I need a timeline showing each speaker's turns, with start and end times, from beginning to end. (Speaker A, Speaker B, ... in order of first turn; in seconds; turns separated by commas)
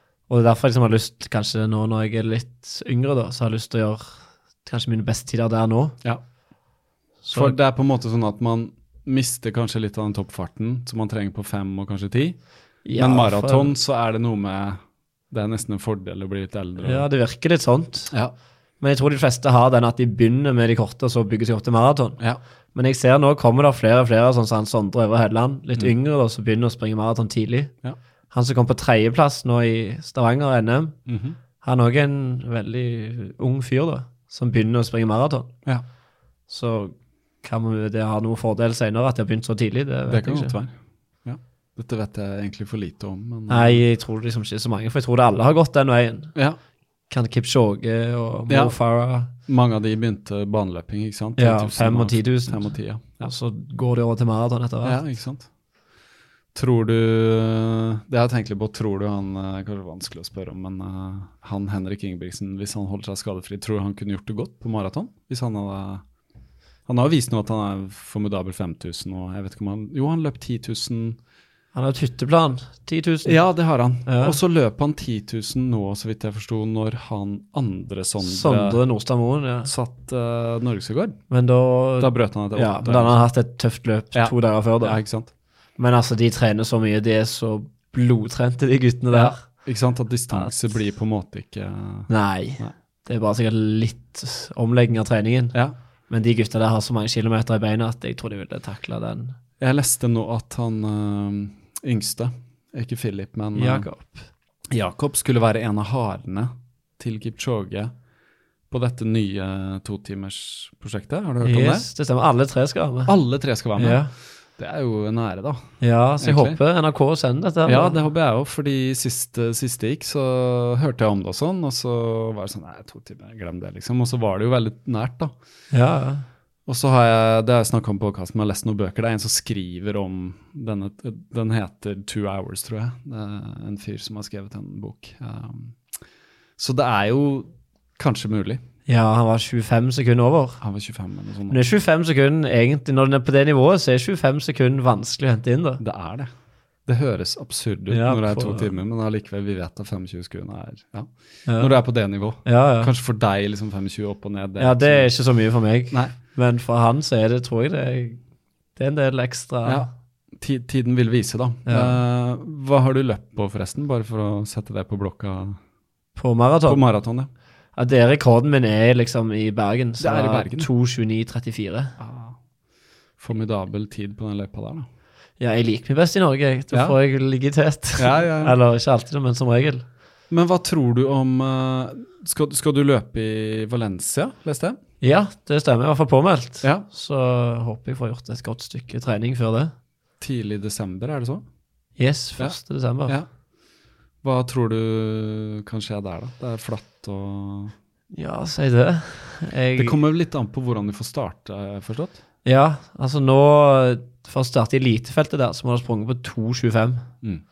Speaker A: 0.3-6.0, Speaker A: 7.2-7.6, Speaker B: 7.3-12.4, Speaker A: 12.8-13.7, Speaker B: 12.9-17.1, Speaker A: 16.8-18.1, Speaker A: 18.8-22.2, Speaker A: 22.8-27.7, Speaker A: 28.3-31.0, Speaker B: 31.1-31.4, Speaker A: 31.6-35.5, Speaker A: 36.5-40.6, Speaker B: 40.1-40.7, Speaker B: 41.2-43.8, Speaker A: 43.5-46.3, Speaker A: 47.1-49.3, Speaker B: 48.5-48.8, Speaker B: 49.5-53.3, Speaker A: 51.4-55.0, Speaker B: 54.8-55.5, Speaker B: 56.5-66.0, Speaker B: 66.9-71.2, Speaker A: 71.7-73.4, Speaker B: 73.2-78.8, Speaker A: 74.1-74.4, Speaker A: 78.2-79.7, Speaker B: 79.7-81.2, Speaker A: 81.3-85.0, Speaker B: 82.0-83.2, Speaker B: 84.2-85.3, Speaker A: 85.8-89.4, Speaker B: 89.1-92.7, Speaker A: 92.1-95.6, Speaker A: 96.1-99.4, Speaker B: 99.6-103.9, Speaker A: 103.5-104.3, Speaker B: 104.7-107.9, Speaker B: 108.7-111.9, Speaker A: 111.4-113.1, Speaker B: 113.1-114.0, Speaker A: 113.8-114.1, Speaker B: 114.6-116.6, Speaker A: 115.8-118.0, Speaker B: 117.7-125.3, Speaker A: 125.7-126.3, Speaker B: 126.7-135.8, Speaker B: 136.6-138.6, Speaker A: 138.9-140.6, Speaker B: 140.6-141.6, Speaker A: 141.5-145.8, Speaker B: 145.8-146.3, Speaker B: 146.9-155.2, Speaker A: 147.9-148.7, Speaker A: 151.5-151.8, Speaker A: 152.4-152.9, Speaker A: 154.6-158.2, Speaker A: 158.8-159.8, Speaker B: 159.7-165.6, Speaker A: 161.7-162.0, Speaker A: 166.2-166.8, Speaker B: 166.7-167.3, Speaker A: 167.8-171.9, Speaker B: 170.0-170.7, Speaker B: 172.0-172.4, Speaker B: 173.2-174.9, Speaker A: 175.4-179.9, Speaker B: 178.0-178.6, Speaker B: 180.3-184.8, Speaker A: 185.0-189.7, Speaker B: 190.2-191.4, Speaker A: 192.0-193.2, Speaker B: 192.4-193.3, Speaker B: 194.2-197.7, Speaker A: 198.1-200.0, Speaker B: 199.8-202.2, Speaker A: 202.4-207.1